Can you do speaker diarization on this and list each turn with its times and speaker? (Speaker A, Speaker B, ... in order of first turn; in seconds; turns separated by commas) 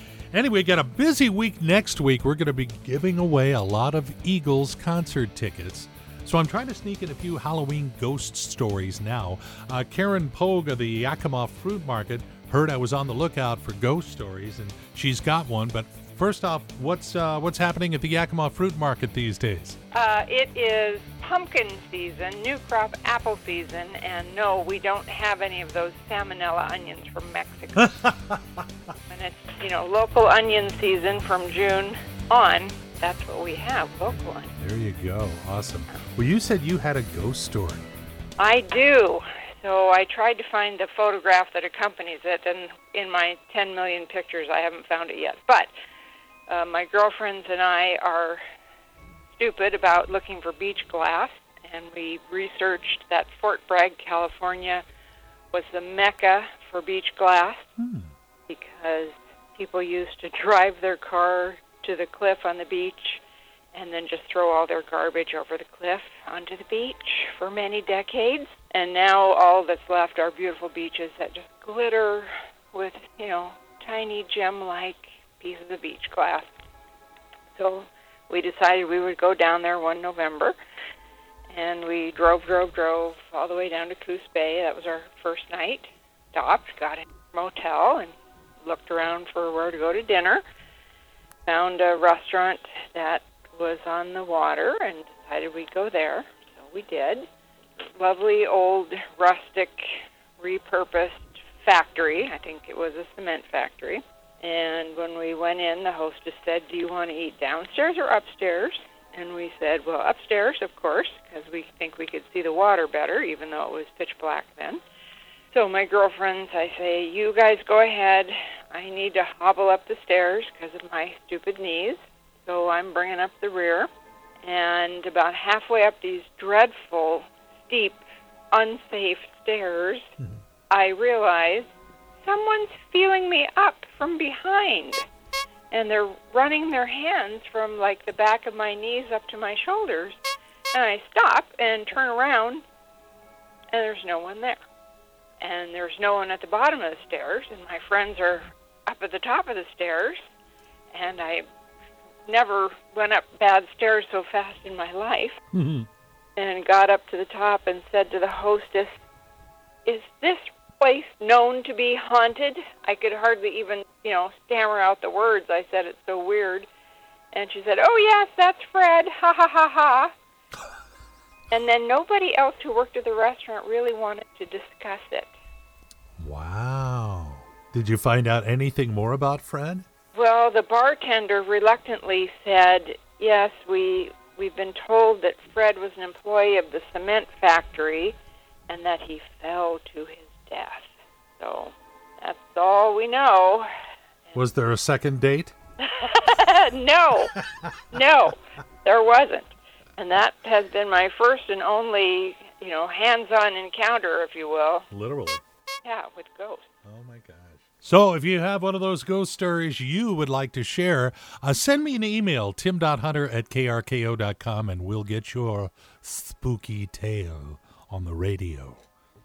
Speaker A: 0.3-19.8, Speaker B: 19.9-28.1, Speaker A: 27.9-28.4, Speaker B: 29.1-34.5, Speaker A: 34.1-37.9, Speaker B: 38.4-45.7, Speaker B: 46.5-48.4, Speaker B: 49.4-54.8, Speaker B: 55.5-57.7, Speaker A: 57.8-58.1, Speaker B: 58.5-63.2, Speaker B: 63.7-76.5, Speaker B: 77.6-80.5, Speaker B: 81.5-88.1, Speaker B: 88.6-90.4, Speaker B: 91.5-97.2, Speaker B: 98.0-114.8, Speaker B: 115.5-123.9, Speaker B: 124.4-128.0, Speaker B: 128.5-130.1, Speaker B: 130.7-131.7, Speaker B: 132.2-135.0, Speaker B: 135.7-140.2, Speaker B: 140.7-142.6, Speaker B: 143.7-144.6, Speaker B: 145.4-150.2, Speaker B: 150.9-151.4, Speaker B: 152.3-155.4, Speaker B: 156.4-158.9, Speaker B: 159.8-166.7, Speaker B: 167.3-170.1, Speaker B: 171.5-175.3, Speaker A: 176.2-179.9, Speaker B: 180.2-188.2, Speaker B: 188.7-190.9, Speaker B: 191.4-193.7, Speaker A: 194.3-195.5, Speaker B: 195.8-204.9, Speaker A: 204.9-205.4, Speaker B: 205.8-206.7, Speaker A: 206.9-218.8